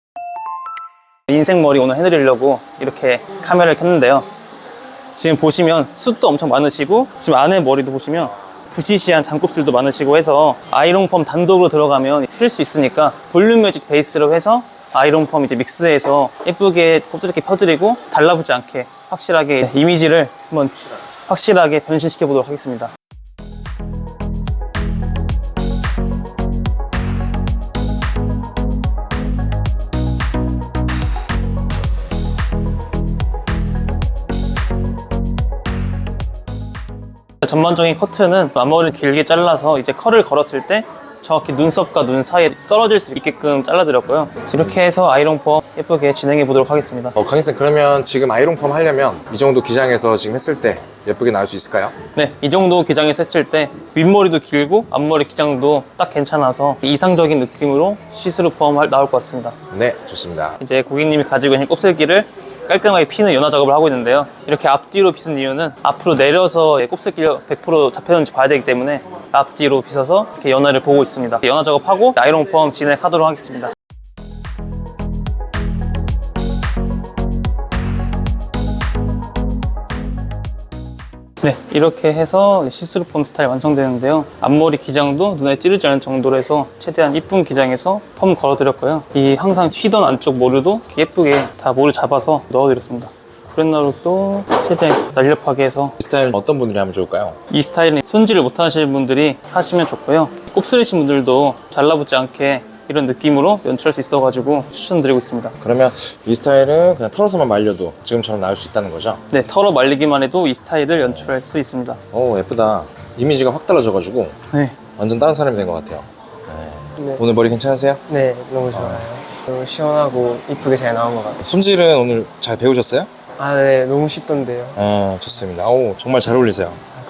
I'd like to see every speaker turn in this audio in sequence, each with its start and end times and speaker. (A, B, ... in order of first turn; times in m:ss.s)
0:01.3-0:04.3 A
0:05.2-0:22.9 A
0:37.4-0:47.2 A
0:47.2-0:52.0 B
0:52.1-0:59.6 A
0:59.7-1:00.6 B
1:00.6-1:13.7 A
1:21.4-1:36.0 A
1:36.0-1:37.4 B
1:37.5-1:45.6 A
1:45.6-1:49.2 B
1:49.3-1:52.0 A
1:51.1-1:51.3 B
1:52.1-1:54.4 B
1:54.5-1:54.8 A
1:54.9-1:58.0 B
1:58.1-2:01.4 C
1:58.7-1:59.0 B
2:01.4-2:03.1 B
2:03.4-2:04.8 C
2:04.8-2:06.8 B